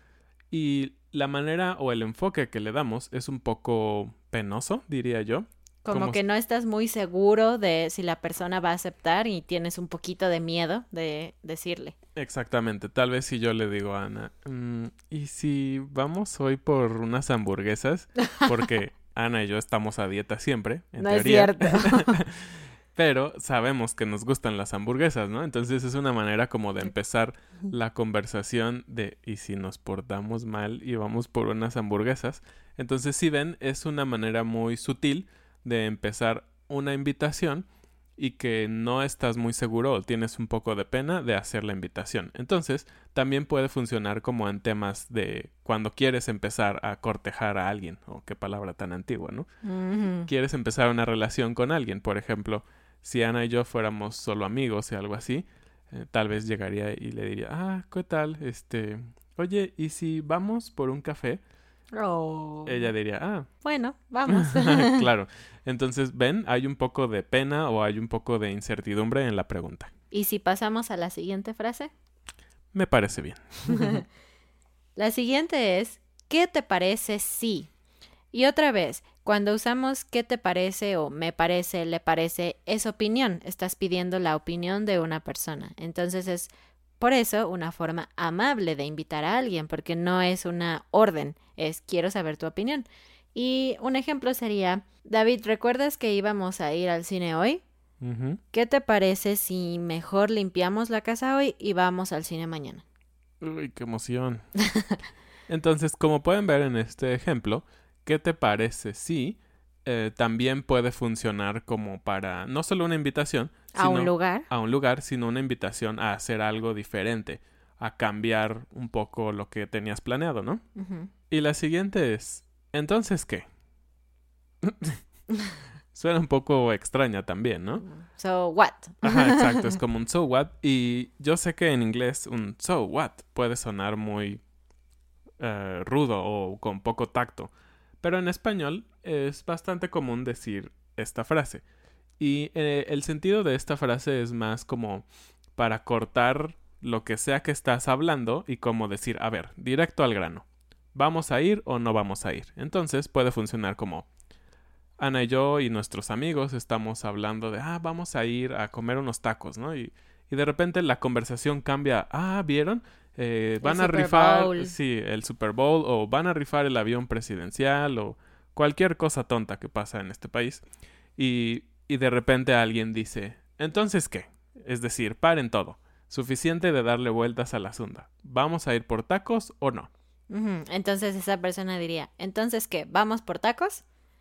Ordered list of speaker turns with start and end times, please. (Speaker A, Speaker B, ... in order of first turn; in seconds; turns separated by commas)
Speaker A: 0.5-6.2, Speaker B: 5.8-11.9, Speaker A: 12.2-49.5, Speaker B: 21.0-22.2, Speaker B: 49.6-50.3, Speaker A: 50.3-61.4, Speaker B: 62.0-62.9, Speaker A: 62.7-63.5, Speaker B: 63.6-65.0, Speaker A: 64.3-69.9, Speaker B: 70.1-71.9, Speaker A: 72.7-74.0, Speaker B: 73.8-74.0, Speaker B: 75.0-77.7, Speaker B: 78.3-97.6, Speaker A: 98.0-98.4, Speaker B: 98.5-102.8, Speaker A: 103.4-104.5, Speaker A: 105.5-120.6, Speaker B: 113.8-114.5, Speaker B: 120.8-121.1, Speaker A: 121.3-123.5, Speaker A: 124.6-125.0, Speaker A: 125.9-127.8, Speaker B: 127.8-129.7, Speaker A: 129.0-134.4, Speaker A: 135.4-141.6, Speaker A: 142.2-154.1, Speaker A: 155.0-170.6, Speaker B: 163.6-164.7, Speaker A: 171.2-179.9, Speaker B: 180.3-183.8